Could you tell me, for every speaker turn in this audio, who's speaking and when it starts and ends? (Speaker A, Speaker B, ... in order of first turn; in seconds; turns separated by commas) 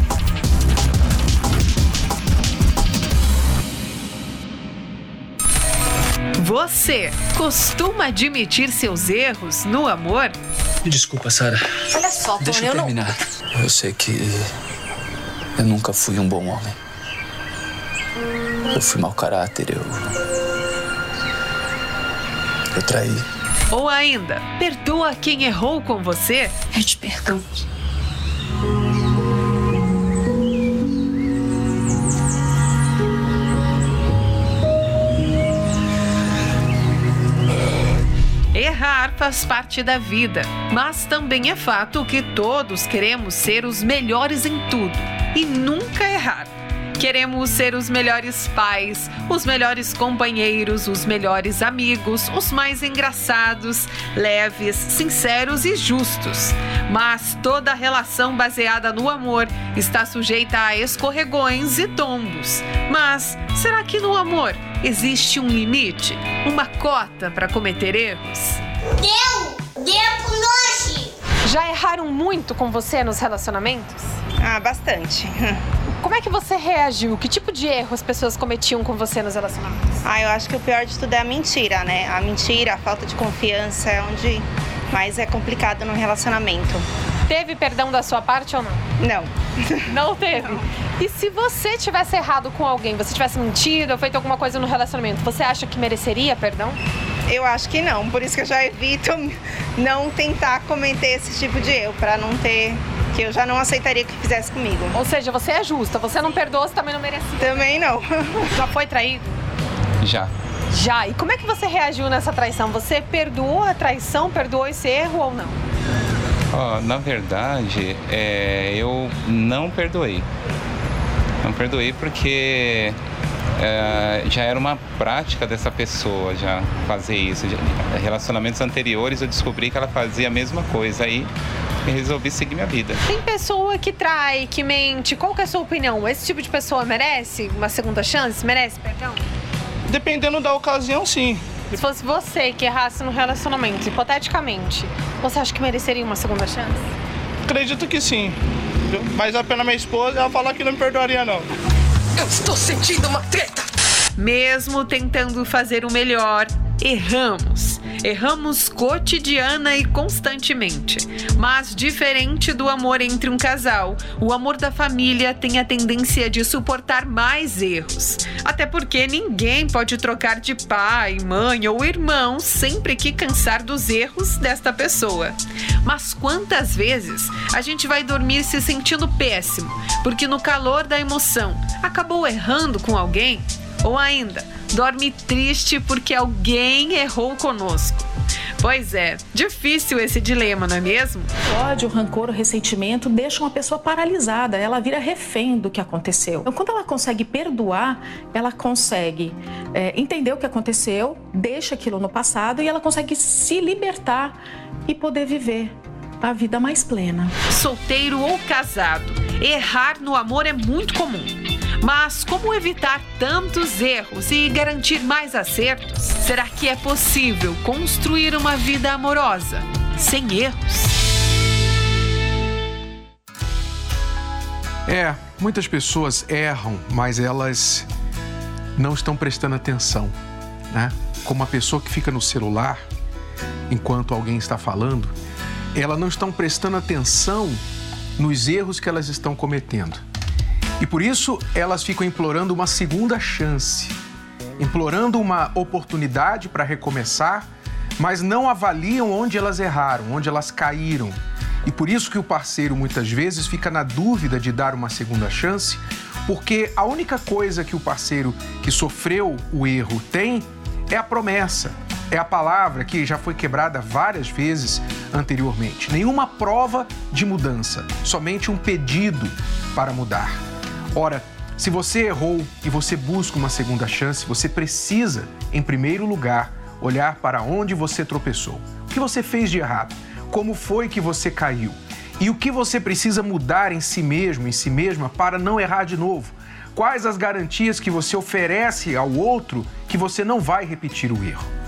Speaker A: 6.4-10.4, Speaker B: 10.8-14.5, Speaker B: 15.6-16.8, Speaker B: 18.7-20.0, Speaker B: 22.7-23.2, Speaker A: 23.7-26.6, Speaker C: 26.7-27.5, Speaker A: 38.5-68.6, Speaker D: 69.0-71.1, Speaker E: 71.4-74.0, Speaker F: 74.4-75.6, Speaker E: 76.0-79.9, Speaker F: 80.0-86.8, Speaker E: 87.3-88.8, Speaker F: 89.0-89.8, Speaker E: 89.9-96.8, Speaker F: 97.3-105.0, Speaker E: 105.0-107.4, Speaker F: 107.4-108.5, Speaker E: 108.5-109.3, Speaker G: 110.0-110.3, Speaker E: 110.7-115.6, Speaker G: 116.5-120.3, Speaker G: 121.4-123.0, Speaker G: 123.6-131.3, Speaker G: 131.8-133.0, Speaker E: 133.1-139.2, Speaker H: 139.9-141.4, Speaker E: 141.7-146.8, Speaker H: 147.5-148.3, Speaker H: 148.9-151.5, Speaker C: 152.2-153.6, Speaker A: 154.2-188.1, Speaker A: 188.6-191.3, Speaker I: 191.4-207.3, Speaker A: 207.5-220.9, Speaker J: 224.9-227.9, Speaker J: 228.8-230.2, Speaker J: 230.7-232.8, Speaker J: 233.7-235.1, Speaker J: 235.7-237.6, Speaker J: 238.2-240.0, Speaker J: 240.8-244.0, Speaker J: 244.6-270.4, Speaker J: 270.9-291.5